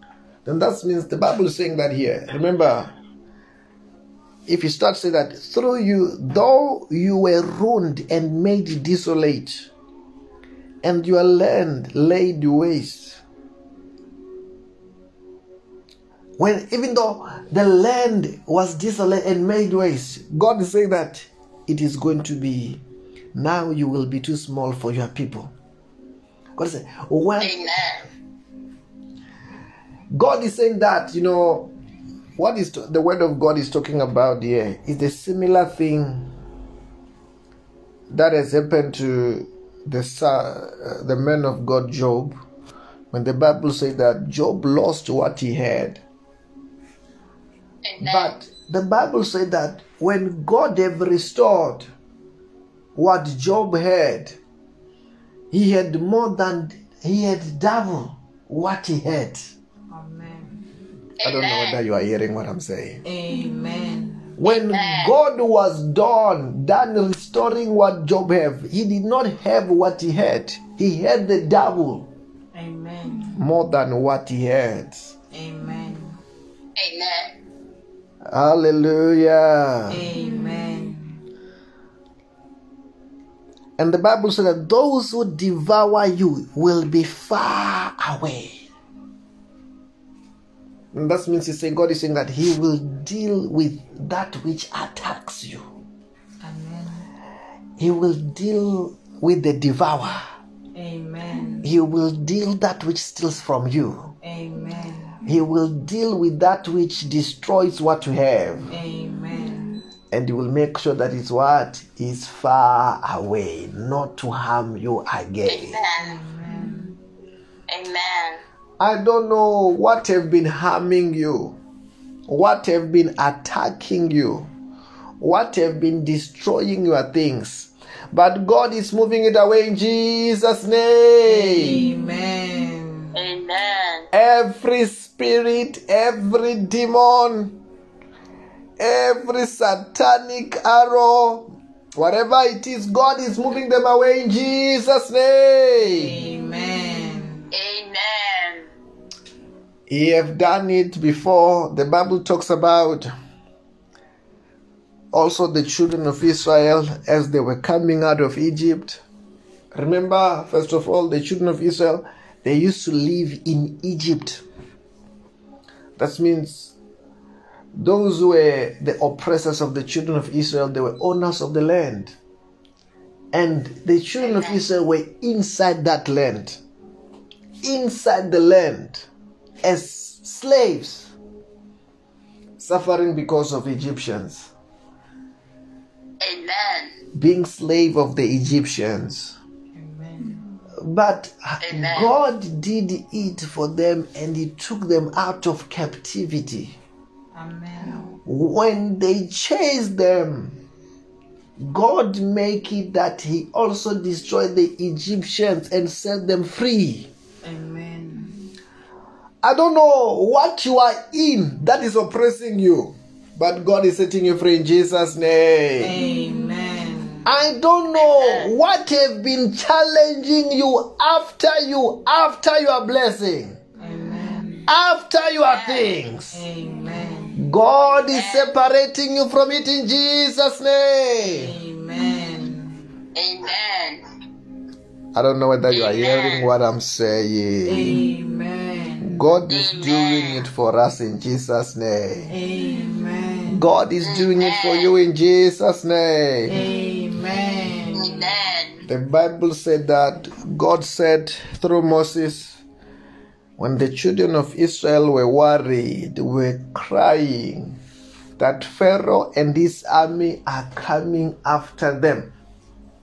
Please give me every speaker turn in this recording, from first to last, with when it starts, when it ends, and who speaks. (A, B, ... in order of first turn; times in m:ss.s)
0:00.4-0:02.9 A
0:04.5-0:09.7 A
0:10.8-0:13.2 A
0:16.4-0:22.8 A
0:23.3-0:25.5 A
0:26.6-0:27.6 A
0:27.4-0:28.1 B
0:30.1-0:31.7 A
0:32.4-0:36.3 A
0:38.1-0:42.4 A
0:43.1-0:46.0 A
0:47.8-0:48.3 B
0:48.0-0:51.9 A
0:52.9-0:54.4 A
0:55.5-0:59.5 A
0:59.9-1:00.6 C
1:01.2-1:01.8 B
1:01.2-1:03.0 A
1:03.0-1:04.3 C
1:04.4-1:12.1 A
1:04.4-1:05.2 B
1:12.5-1:13.4 C
1:13.4-1:15.1 A
1:15.3-1:16.2 C
1:16.8-1:17.3 B
1:18.2-1:20.0 A
1:19.9-1:21.2 C
1:23.8-1:28.6 A
1:30.9-1:35.6 A
1:36.4-1:37.1 C
1:37.8-1:40.2 A
1:40.7-1:41.7 C
1:41.6-1:44.1 A
1:44.2-1:45.2 C
1:45.2-1:48.7 A
1:48.7-1:49.8 C
1:50.1-1:55.8 A
1:55.5-1:56.1 B
1:56.0-1:57.0 C
1:57.7-1:58.4 B
1:58.8-2:01.6 A
2:02.3-2:04.5 A
2:05.2-2:11.8 A
2:11.2-2:13.1 C
2:13.1-2:14.1 B
2:14.1-2:17.6 A
2:18.8-2:26.1 A
2:25.8-2:27.5 C
2:27.5-2:28.7 B
2:29.9-2:33.1 A
2:35.1-2:39.0 A
2:39.8-2:44.4 A
2:46.0-2:46.7 A
2:47.7-2:52.1 A
2:53.3-2:56.6 A
2:54.2-2:54.6 B
2:57.6-2:59.1 A
2:59.6-3:01.1 A
3:02.6-3:04.5 A
3:06.2-3:07.0 B
3:07.1-3:09.4 A
3:09.7-3:10.4 C
3:10.8-3:16.8 A
3:11.6-3:12.1 B
3:17.3-3:18.1 C
3:18.2-3:20.6 A
3:21.6-3:27.1 A
3:27.4-3:28.4 C
3:29.4-3:35.9 A
3:35.8-3:37.2 C
3:37.2-3:43.6 A
3:38.0-3:38.5 B
3:43.8-3:44.7 C
3:44.7-3:46.4 A
3:45.3-3:46.0 B
3:46.3-3:47.4 C
3:47.4-3:51.5 A
3:48.0-3:48.5 B
3:51.2-3:52.8 C
3:53.1-3:54.0 B
3:55.1-3:58.0 A
3:55.7-3:56.5 B
3:57.6-3:59.1 C
3:59.0-4:02.3 A
3:59.5-4:00.4 B
4:02.3-4:03.6 C
4:03.5-4:06.6 A
4:04.0-4:04.9 B
4:06.5-4:08.2 C
4:08.0-4:08.8 B
4:08.9-4:12.6 A
4:13.6-4:17.8 A
4:18.4-4:22.3 A